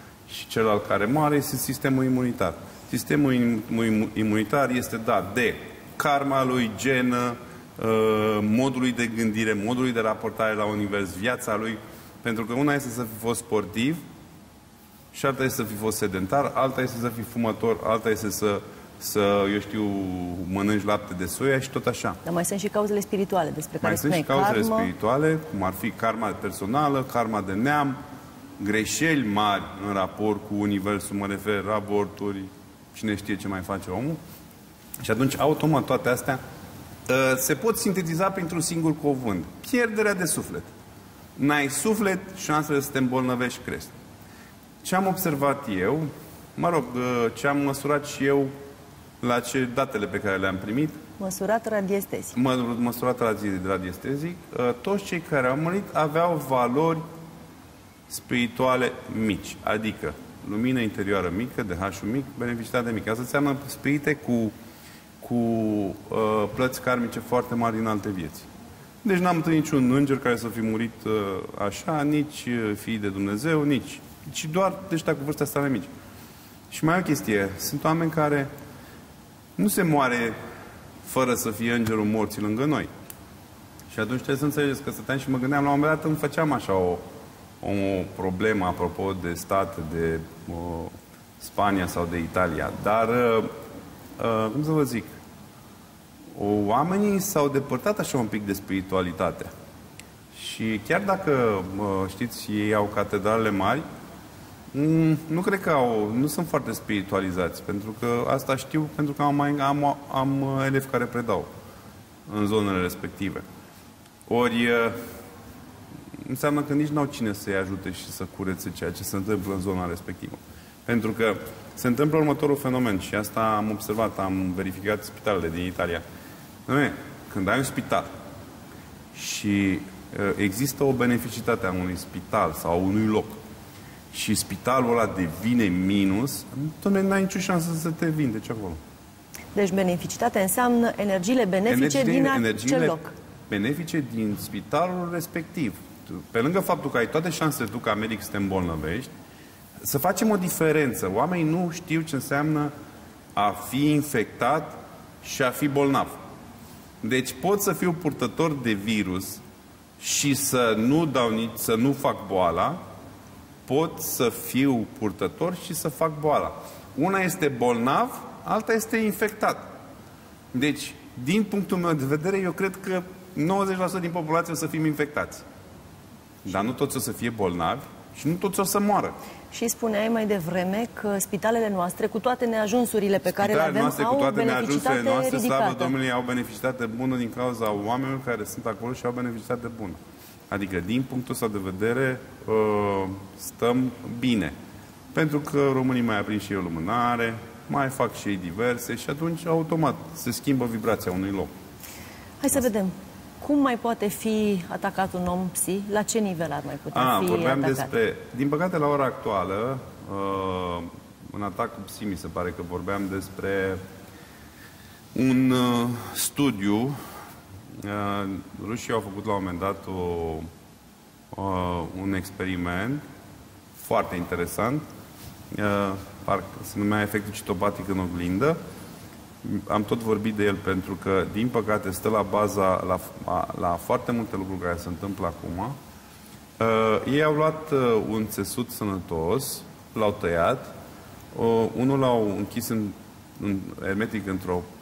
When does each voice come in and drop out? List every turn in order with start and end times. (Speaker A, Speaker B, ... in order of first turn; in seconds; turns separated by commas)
Speaker A: 0.3-14.0, Speaker A: 15.1-22.2, Speaker B: 22.2-24.9, Speaker A: 23.8-28.0, Speaker A: 28.6-34.2, Speaker A: 35.0-36.4, Speaker A: 37.1-40.7, Speaker A: 41.4-44.0, Speaker A: 44.8-48.5, Speaker A: 49.2-51.0, Speaker B: 51.2-52.3, Speaker A: 52.3-57.0, Speaker A: 58.1-64.5, Speaker A: 65.2-68.5, Speaker A: 69.0-75.9, Speaker A: 76.7-78.5, Speaker A: 79.6-80.3, Speaker A: 81.0-82.9, Speaker A: 83.9-87.0, Speaker A: 87.6-93.5, Speaker A: 94.2-95.2, Speaker A: 96.3-99.5, Speaker A: 100.3-103.8, Speaker A: 104.7-111.5, Speaker A: 112.3-113.4, Speaker A: 114.3-115.0, Speaker A: 116.2-126.0, Speaker A: 126.7-128.1, Speaker A: 129.1-133.4, Speaker A: 134.1-138.8, Speaker B: 139.5-143.1, Speaker A: 141.7-143.0, Speaker A: 143.5-149.1, Speaker A: 149.8-152.7, Speaker A: 153.4-156.2, Speaker A: 157.0-159.4, Speaker A: 160.0-162.8, Speaker A: 163.7-169.7, Speaker A: 170.5-175.5, Speaker A: 176.4-179.2, Speaker B: 179.5-185.9, Speaker A: 183.2-190.0, Speaker A: 190.5-194.5, Speaker A: 195.1-201.5, Speaker B: 202.4-207.9, Speaker A: 206.9-213.8, Speaker A: 215.1-216.9, Speaker A: 217.8-220.5, Speaker A: 221.3-223.0, Speaker A: 223.8-224.8, Speaker A: 225.5-228.6, Speaker A: 229.4-235.8, Speaker A: 236.6-240.7, Speaker A: 241.3-244.7